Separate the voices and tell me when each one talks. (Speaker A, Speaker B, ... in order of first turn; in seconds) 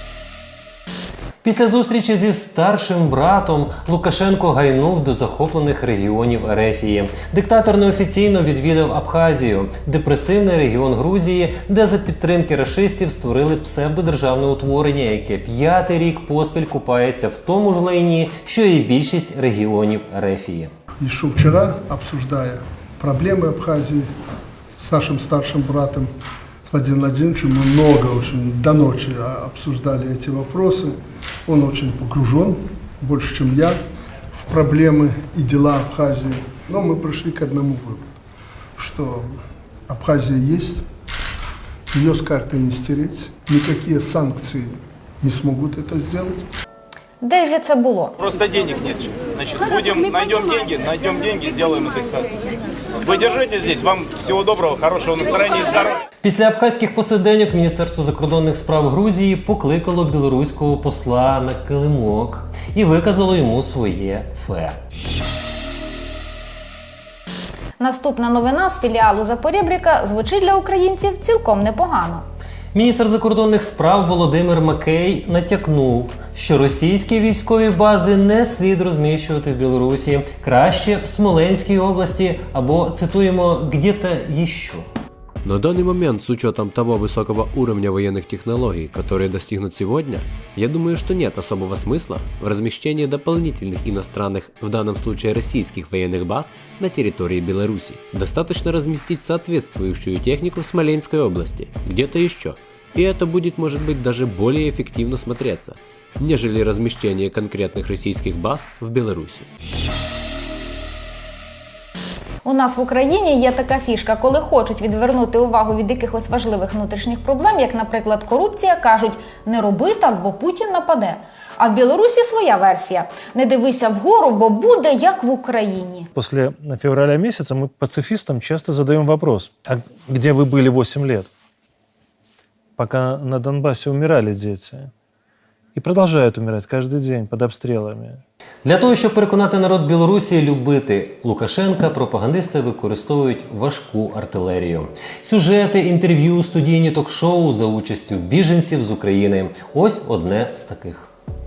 Speaker A: 1.4-20.7, 56.2-64.8, 72.7-84.9, 138.7-151.1
Speaker B: 21.0-24.1, 24.8-26.1, 26.7-30.9, 31.5-33.8, 34.3-38.1, 38.8-39.4, 39.9-40.8, 41.9-46.4
Speaker C: 47.2-48.1, 67.8-72.2, 112.5-126.0
Speaker D: 48.2-52.3, 53.0-56.0
Speaker E: 85.5-90.1, 90.6-102.4, 103.1-105.7, 106.2-109.3
Speaker F: 126.1-131.3, 132.8-134.9, 135.8-138.2